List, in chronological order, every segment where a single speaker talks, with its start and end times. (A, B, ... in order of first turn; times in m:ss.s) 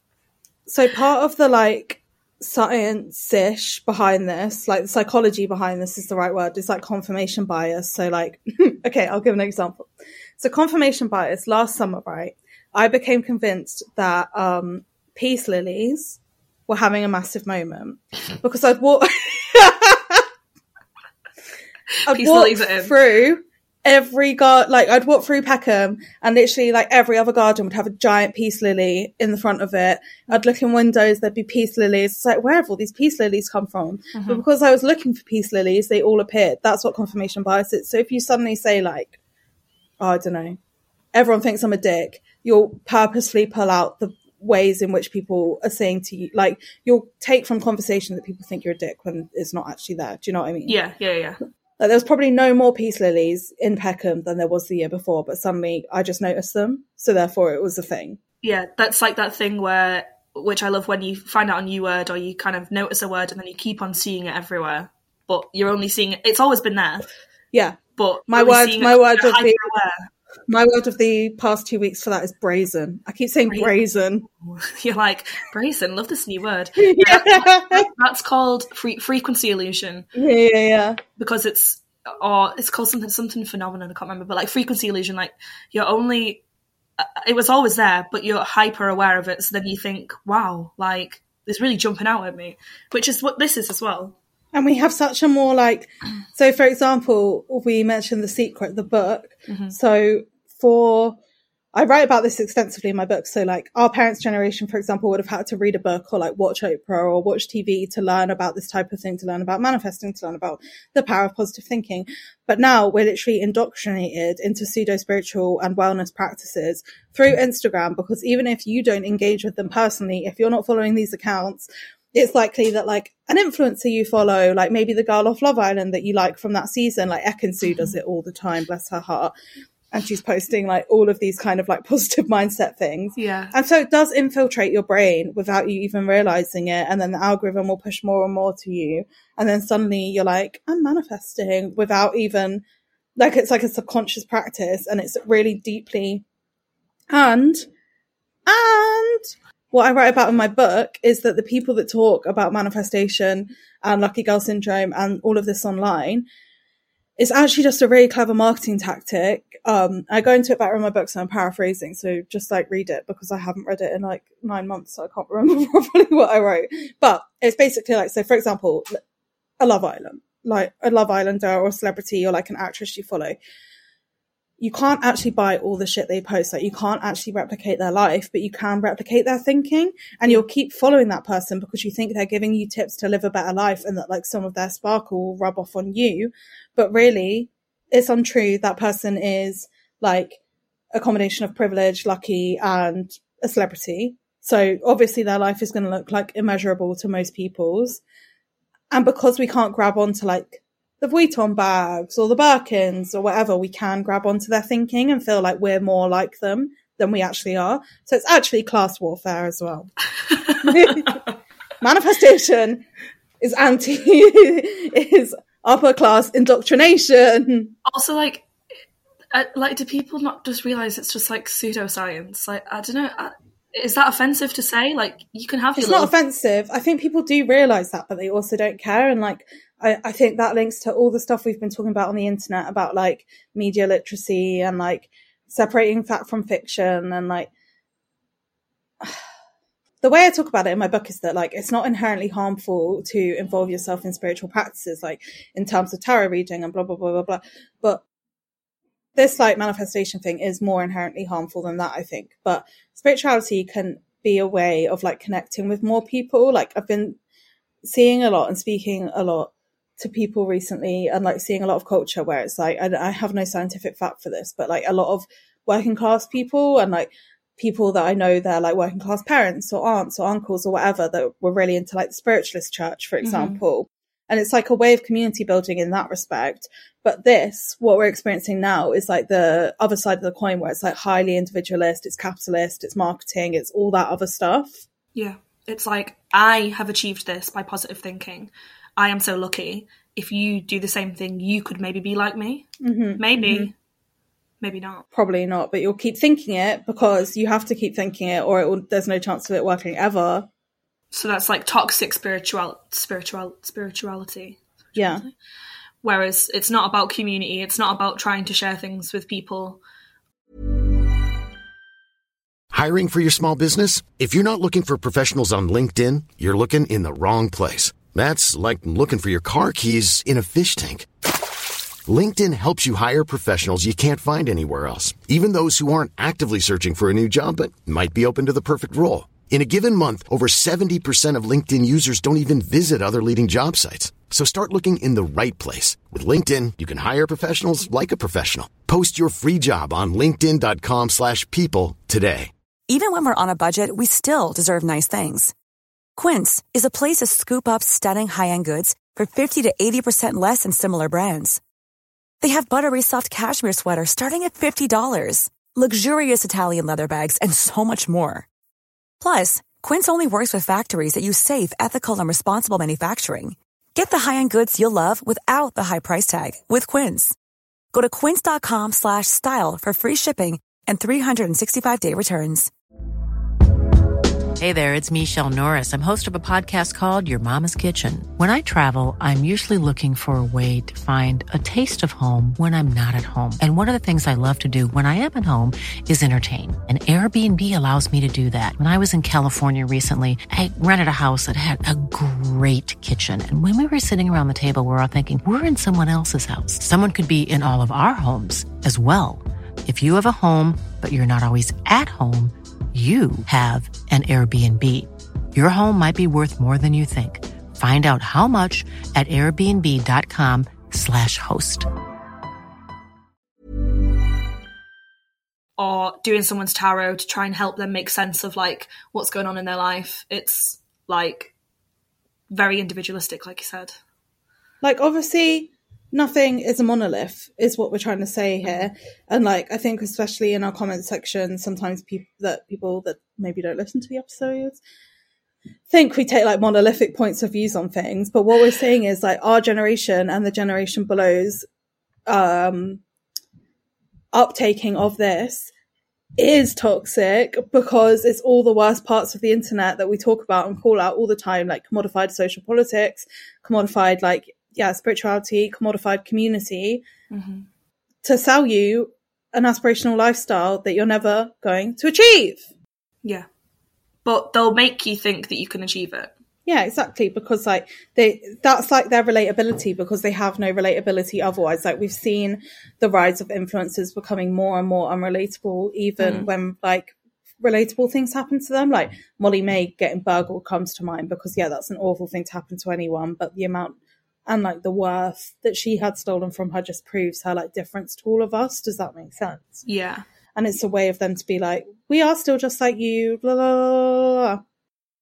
0:00.7-0:20.2 A
0:22.0-0:23.0 B
0:22.1-0:39.2 A
0:34.1-0:34.4 B
0:40.0-0:40.6 A
0:41.1-0:50.8 A
0:50.7-0:51.4 B
0:51.8-0:58.2 A
0:58.4-1:07.1 B
1:07.5-1:09.7 A
1:08.0-1:10.0 B
1:10.5-1:14.2 A
1:14.4-1:20.1 B
1:16.8-1:17.8 A
1:20.1-1:21.0 A
1:21.2-1:26.4 B
1:27.0-1:34.2 B
1:34.5-1:41.2 A
1:39.5-1:39.7 B
1:41.7-2:09.3 A
2:09.9-2:22.6 A
2:13.2-2:13.5 B
2:23.2-2:26.2 A
2:27.1-2:27.7 A
2:28.4-2:36.2 A
2:37.2-2:49.0 A
2:49.6-2:53.4 A
2:54.6-3:10.4 A
3:10.9-3:18.0 A
3:18.9-3:29.9 A
3:30.5-3:31.2 A
3:30.5-3:31.1 B
3:31.8-3:32.8 A
3:33.4-3:37.7 A
3:37.8-3:38.5 B
3:39.3-3:46.1 B
3:45.8-3:57.5 A
4:00.0-4:08.0 A
4:09.1-4:17.2 A
4:17.8-4:44.8 A
4:33.2-4:33.6 B
4:45.1-4:53.7 B
4:52.8-4:53.7 A
4:54.6-4:55.0 B
4:55.1-5:00.5 A
5:01.1-5:05.3 B
5:04.9-5:05.2 A
5:06.0-5:09.8 B
5:12.7-5:21.1 C
5:22.0-5:42.5 C
5:42.9-5:45.5 D
5:46.2-5:51.6 D
5:52.4-5:58.5 D
5:59.2-6:07.4 D
6:07.9-6:12.7 D
6:14.6-6:51.9 E
6:55.8-7:01.5 B
7:02.5-7:03.9 B
7:04.8-7:14.8 A
7:15.9-7:21.6 A
7:22.3-7:23.0 A
7:24.3-7:25.7 A
7:26.4-7:37.0 A
7:37.3-7:37.7 B
7:38.2-7:42.6 A
7:44.2-7:46.3 B
7:46.6-8:09.8 A
7:56.2-7:56.5 B
8:09.9-8:10.2 B
8:10.5-8:14.6 A